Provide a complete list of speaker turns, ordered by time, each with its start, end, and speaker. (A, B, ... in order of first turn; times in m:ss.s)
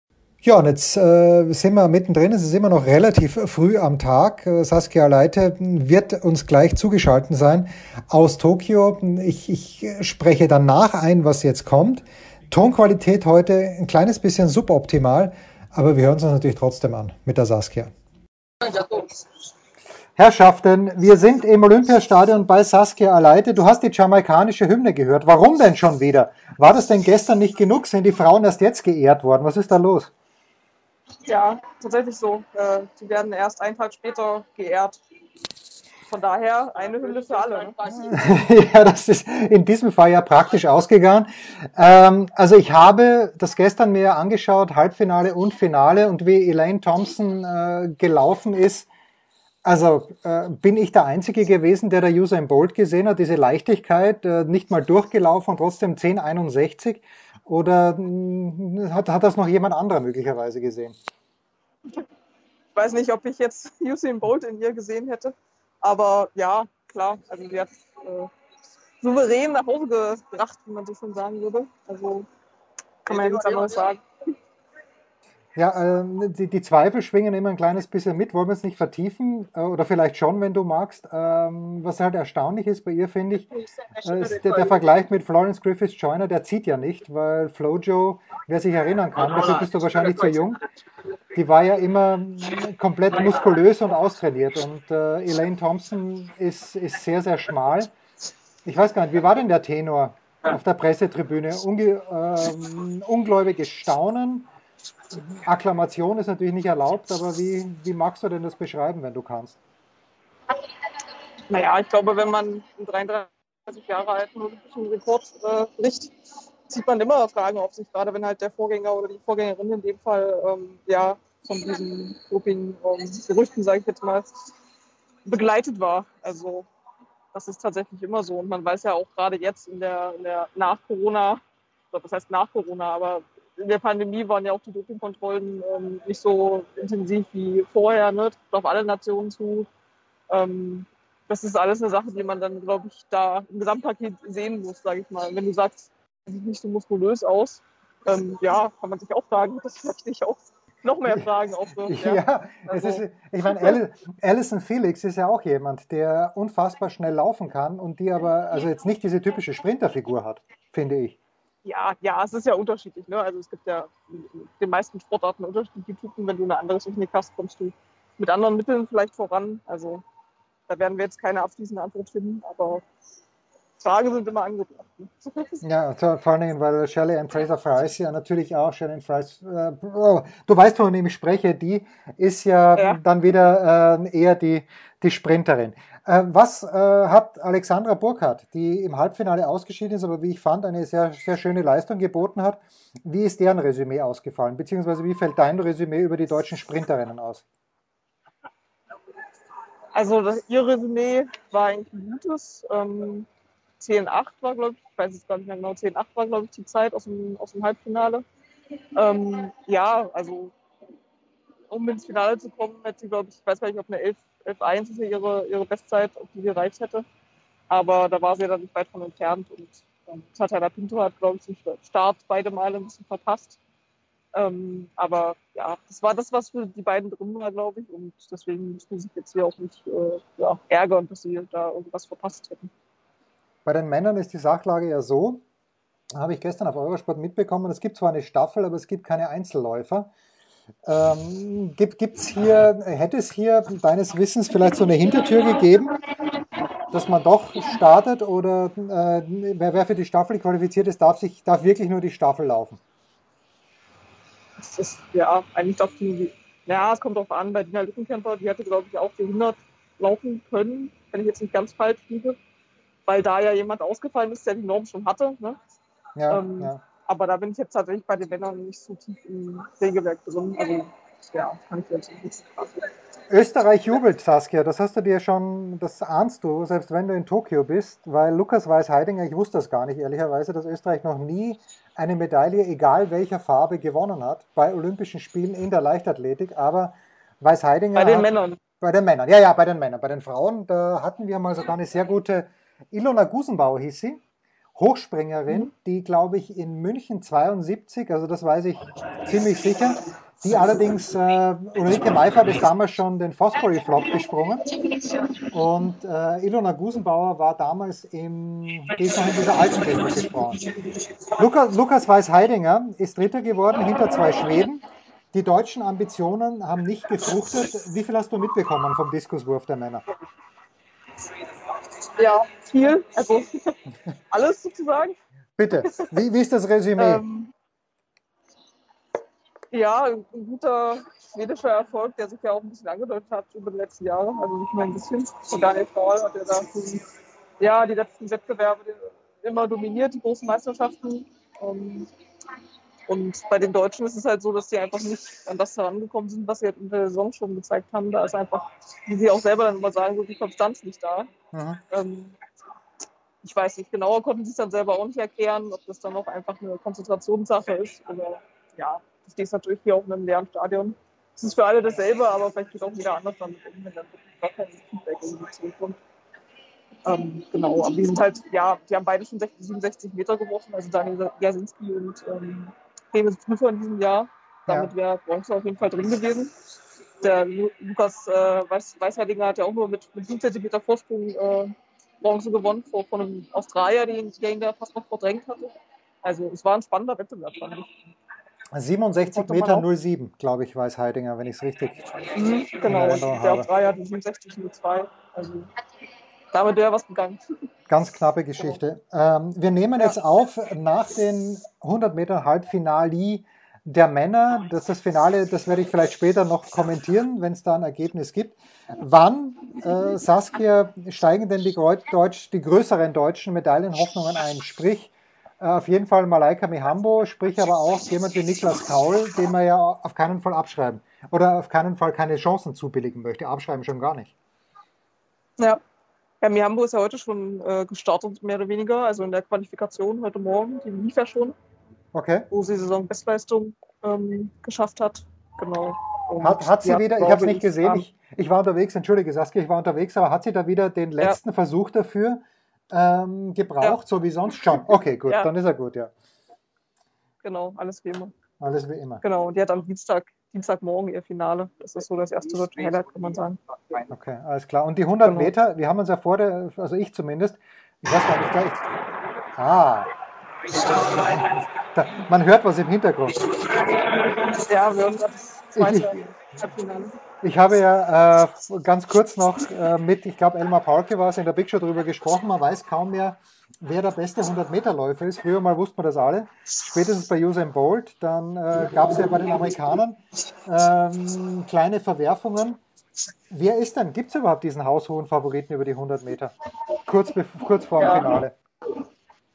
0:00.4-0:17.9 A
0:20.2-0:30.1 A
0:31.3-0:35.0 B
0:36.1-0:37.8 B
0:37.9-0:48.9 A
0:49.6-1:01.0 A
1:02.8-1:08.3 B
1:09.0-1:12.3 B
1:13.0-1:14.0 B
1:15.6-1:30.6 A
1:31.3-1:37.9 A
1:38.6-1:44.5 A
1:45.1-1:49.6 A
1:51.5-1:56.1 B
1:56.7-2:04.3 B
2:05.3-2:06.7 B
2:07.3-2:11.4 B
2:11.9-2:19.7 B
2:20.3-2:33.8 B
2:31.8-2:41.2 A
2:41.6-2:50.0 B
2:50.7-2:52.8 B
2:53.8-2:55.6 B
2:55.6-3:17.4 A
3:19.9-3:23.3 B
3:23.8-3:28.2 B
3:29.0-3:30.5 B
3:31.7-3:37.0 B
3:37.7-3:43.6 B
3:44.3-3:52.7 B
3:53.6-3:55.4 A
3:56.2-4:00.1 A
4:00.8-4:06.0 A
4:06.9-4:12.8 A
4:14.6-4:22.4 B
4:23.1-4:25.6 B
4:26.2-4:26.8 A
4:26.3-4:32.9 B
4:33.3-4:48.3 A
4:48.0-4:48.6 B
4:48.8-4:54.2 A
4:54.8-5:04.7 A
5:05.5-5:10.6 A
5:11.4-5:20.0 A
5:22.1-5:23.8 B
5:24.3-5:25.2 B
5:25.6-5:27.2 A
5:25.8-5:26.1 B
5:27.0-5:27.5 B
5:29.7-5:37.0 B
5:37.6-5:42.1 B
5:43.1-5:51.3 B
5:51.5-5:51.8 A
5:51.9-5:52.4 B
5:53.4-6:06.0 B
6:07.0-6:16.5 B
6:14.7-6:14.9 A
6:17.2-6:27.9 B
6:28.7-6:32.0 A
6:29.2-6:29.9 B
6:32.3-6:35.7 B
6:32.8-6:33.7 A
6:36.5-6:37.4 B
6:37.9-7:04.3 A
7:06.4-7:11.6 B
7:12.1-7:12.5 A
7:12.5-7:18.0 B
7:16.4-7:26.1 A
7:27.4-7:28.4 B
7:28.6-7:29.2 A
7:29.2-7:34.0 B
7:34.1-7:38.9 A
7:35.2-7:35.5 B
7:39.6-7:40.1 A
7:41.1-7:43.4 A
7:43.8-7:47.2 B
7:45.8-7:46.3 A
7:47.4-8:02.8 A
8:03.5-8:06.5 A
8:07.1-8:08.6 A
8:08.0-8:08.3 B